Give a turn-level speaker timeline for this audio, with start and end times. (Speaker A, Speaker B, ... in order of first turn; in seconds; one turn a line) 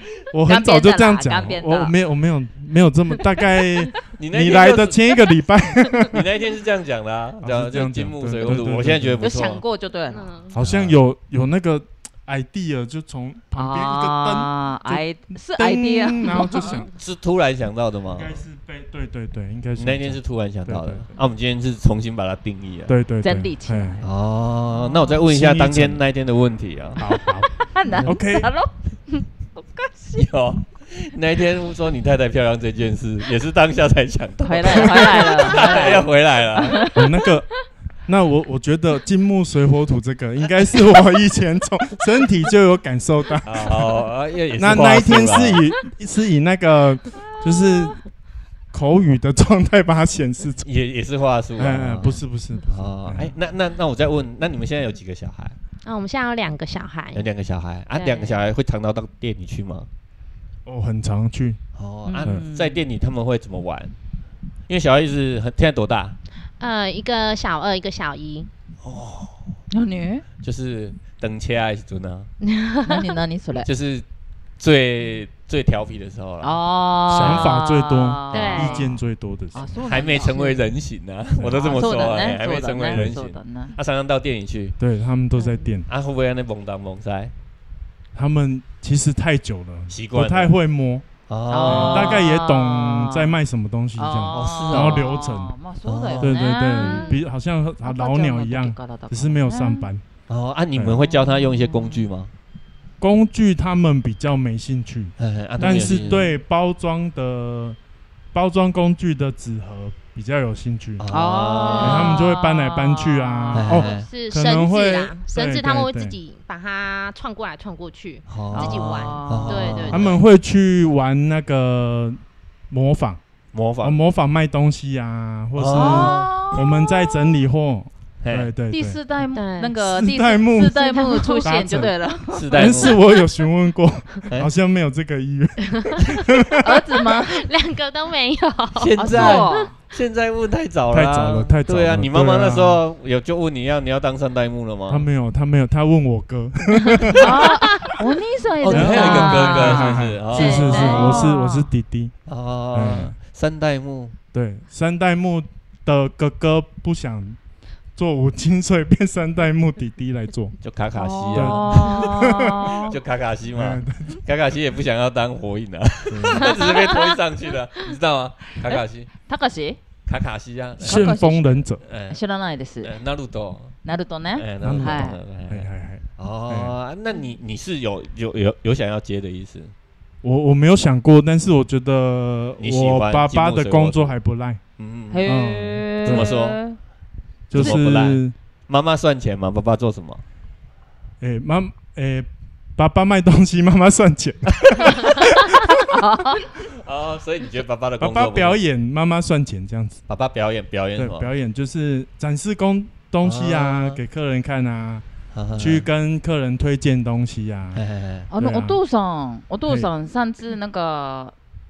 Speaker A: 0.3-6.2
Speaker B: 0.5-1.9
Speaker C: 4.2-5.0
Speaker C: 6.1-9.6
Speaker A: 7.4-9.2
Speaker B: 9.2-10.4
Speaker D: 10.1-10.5
Speaker A: 10.5-16.9
Speaker C: 10.6-11.0
Speaker B: 13.5-16.8
Speaker C: 16.9-18.4
Speaker A: 18.1-21.1
Speaker C: 19.8-22.9
Speaker A: 22.9-24.0
Speaker B: 23.2-24.1
Speaker C: 24.0-27.1
Speaker A: 25.2-26.0
Speaker A: 27.0-28.5
Speaker B: 27.1-30.2
Speaker C: 30.1-36.8
Speaker B: 34.4-37.2
Speaker A: 36.9-37.5
Speaker A: 38.0-43.9
Speaker C: 43.4-45.6
Speaker A: 44.6-48.0
Speaker A: 48.7-50.6
Speaker C: 50.6-55.5
Speaker A: 51.6-53.3
Speaker D: 55.8-57.2
Speaker C: 57.1-59.9
Speaker D: 57.9-58.4
Speaker A: 60.6-61.6
Speaker C: 61.7-63.9
Speaker B: 62.0-62.8
Speaker C: 64.7-66.2
Speaker D: 66.6-68.5
Speaker C: 68.8-69.5
Speaker B: 69.7-70.2
Speaker C: 70.4-72.3
Speaker D: 72.4-73.1
Speaker B: 72.8-73.7
Speaker C: 73.6-74.0
Speaker C: 74.6-76.6
Speaker B: 76.4-79.0
Speaker A: 77.1-79.7
Speaker C: 77.2-77.5
Speaker D: 78.3-78.8
Speaker B: 79.5-80.6
Speaker C: 79.8-84.8
Speaker A: 81.4-81.7
Speaker B: 81.5-83.8
Speaker A: 84.8-85.9
Speaker C: 85.9-87.3
Speaker A: 88.1-91.0
Speaker C: 89.9-90.5
Speaker C: 91.3-92.2
Speaker B: 91.5-93.3
Speaker A: 91.6-95.5
Speaker B: 94.0-97.2
Speaker C: 94.3-95.1
Speaker C: 95.8-96.4
Speaker A: 96.2-100.0
Speaker D: 96.8-97.2
Speaker B: 97.8-99.9
Speaker C: 100.3-102.3
Speaker A: 100.7-101.0
Speaker B: 101.1-102.0
Speaker A: 103.0-107.8
Speaker C: 105.2-106.3
Speaker B: 105.6-106.1
Speaker A: 108.3-111.1
Speaker C: 111.0-112.2
Speaker B: 111.1-113.8
Speaker D: 111.6-112.1
Speaker A: 111.8-116.1
Speaker C: 113.5-114.1
Speaker D: 113.7-120.2
Speaker C: 118.3-120.2
Speaker B: 118.5-119.8
Speaker A: 119.9-123.2
Speaker C: 123.5-124.0
Speaker A: 123.8-129.0
Speaker C: 125.5-126.3
Speaker B: 125.7-127.1
Speaker C: 128.2-128.5
Speaker B: 128.7-132.9
Speaker D: 129.3-129.7
Speaker A: 129.8-131.9
Speaker D: 130.8-131.4
Speaker C: 132.3-133.0
Speaker A: 132.5-136.7
Speaker D: 135.7-136.2
Speaker B: 136.6-137.5
Speaker D: 137.0-139.7
Speaker C: 138.7-145.1
Speaker B: 139.0-139.7
Speaker A: 140.9-142.8
Speaker A: 144.9-147.4
Speaker D: 147.0-147.9
Speaker B: 147.1-151.7
Speaker C: 148.6-151.2
Speaker A: 148.7-152.1
Speaker D: 150.3-151.3
Speaker C: 152.2-154.1
Speaker A: 152.7-153.1
Speaker A: 154.3-157.4
Speaker A: 157.9-160.6
Speaker C: 160.6-169.1
Speaker B: 160.9-163.0
Speaker A: 161.3-162.7
Speaker A: 163.5-164.2
Speaker A: 166.1-166.6
Speaker B: 168.7-169.8
Speaker C: 170.1-171.2
Speaker B: 170.8-172.9
Speaker A: 170.8-171.8
Speaker C: 171.8-172.2
Speaker C: 172.8-173.7
Speaker B: 173.8-175.2
Speaker C: 174.3-179.7
Speaker A: 174.6-176.7
Speaker A: 180.2-184.6
Speaker C: 182.6-184.1
Speaker C: 184.8-185.3
Speaker B: 185.1-186.8
Speaker A: 185.2-186.3
Speaker C: 186.0-186.6
Speaker A: 187.5-188.3
Speaker C: 187.5-190.2
Speaker A: 191.2-195.9
Speaker B: 195.8-196.5
Speaker C: 196.7-198.6
Speaker A: 198.0-200.0
Speaker C: 200.1-201.3
Speaker A: 201.0-205.0
Speaker C: 203.2-204.0
Speaker C: 205.3-205.8
Speaker A: 205.6-207.8
Speaker C: 207.7-208.3
Speaker B: 208.3-211.3
Speaker A: 208.4-208.8